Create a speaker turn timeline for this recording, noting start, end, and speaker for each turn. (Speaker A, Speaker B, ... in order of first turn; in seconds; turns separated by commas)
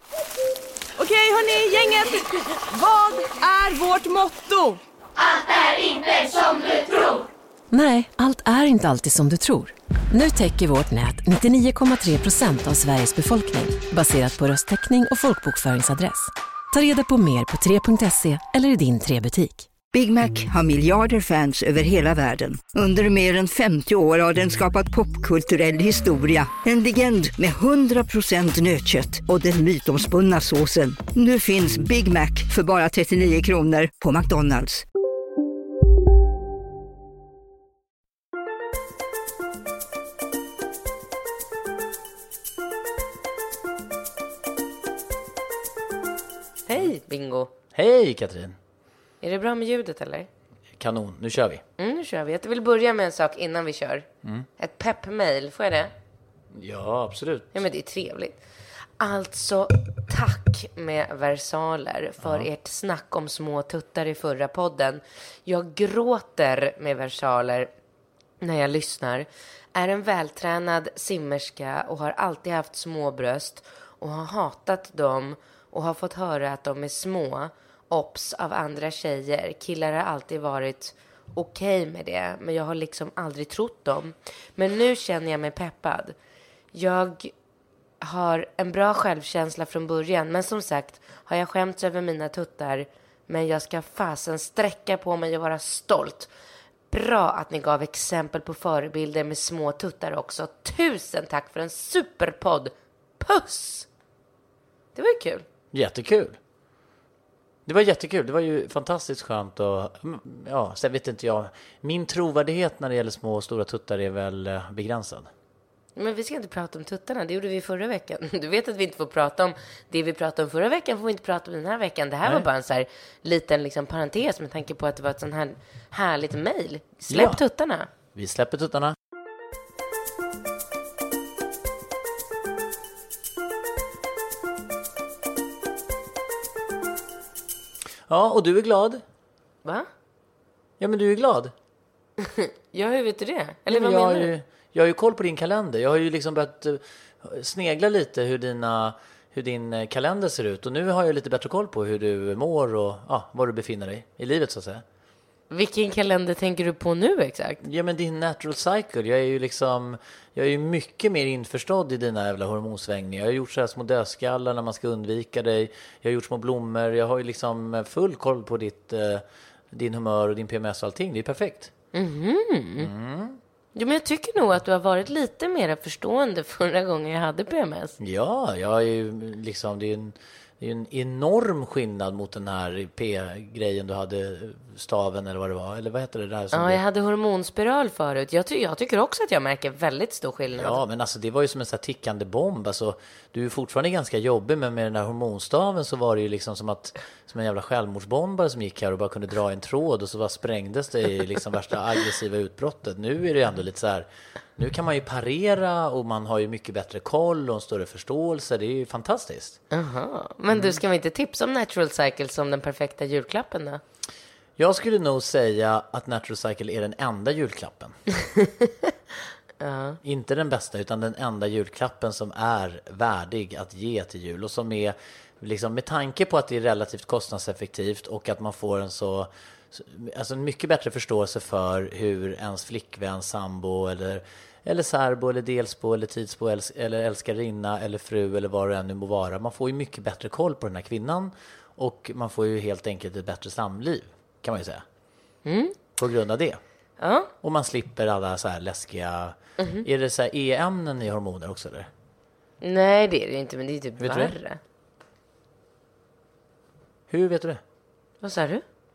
Speaker A: 1.0-1.8, Speaker A: 2.7-4.7, Speaker B: 5.8-6.8, Speaker B: 7.7-19.7, Speaker C: 19.9-34.8, Speaker D: 46.7-47.5, Speaker E: 47.7-48.6, Speaker D: 49.2-50.3, Speaker E: 50.8-51.6, Speaker D: 51.8-54.1, Speaker D: 54.6-55.9, Speaker E: 56.5-57.5, Speaker D: 57.5-58.4, Speaker D: 59.0-67.7, Speaker E: 62.2-62.5, Speaker D: 68.4-86.1, Speaker D: 86.7-87.3, Speaker D: 88.0-96.3, Speaker D: 96.9-103.9, Speaker D: 104.9-105.4, Speaker E: 105.7-106.4, Speaker E: 107.7-115.3, Speaker D: 116.0-127.9, Speaker E: 127.1-127.4, Speaker E: 128.1-128.9, Speaker E: 138.1-139.0, Speaker E: 140.8-141.5, Speaker D: 142.2-144.3, Speaker E: 143.7-154.8, Speaker D: 155.5-157.6, Speaker E: 157.6-171.7, Speaker D: 171.9-172.9, Speaker E: 172.8-173.4, Speaker D: 173.7-177.9, Speaker E: 178.0-186.8, Speaker D: 186.5-190.8, Speaker E: 190.6-209.6, Speaker D: 209.7-213.8, Speaker E: 214.6-218.0, Speaker D: 219.6-220.0, Speaker E: 220.0-244.8, Speaker D: 245.4-245.8, Speaker E: 246.0-246.6, Speaker D: 247.0-247.3, Speaker E: 247.4-251.9, Speaker D: 252.6-254.6, Speaker E: 254.0-254.3, Speaker E: 257.1-257.6, Speaker D: 258.2-258.6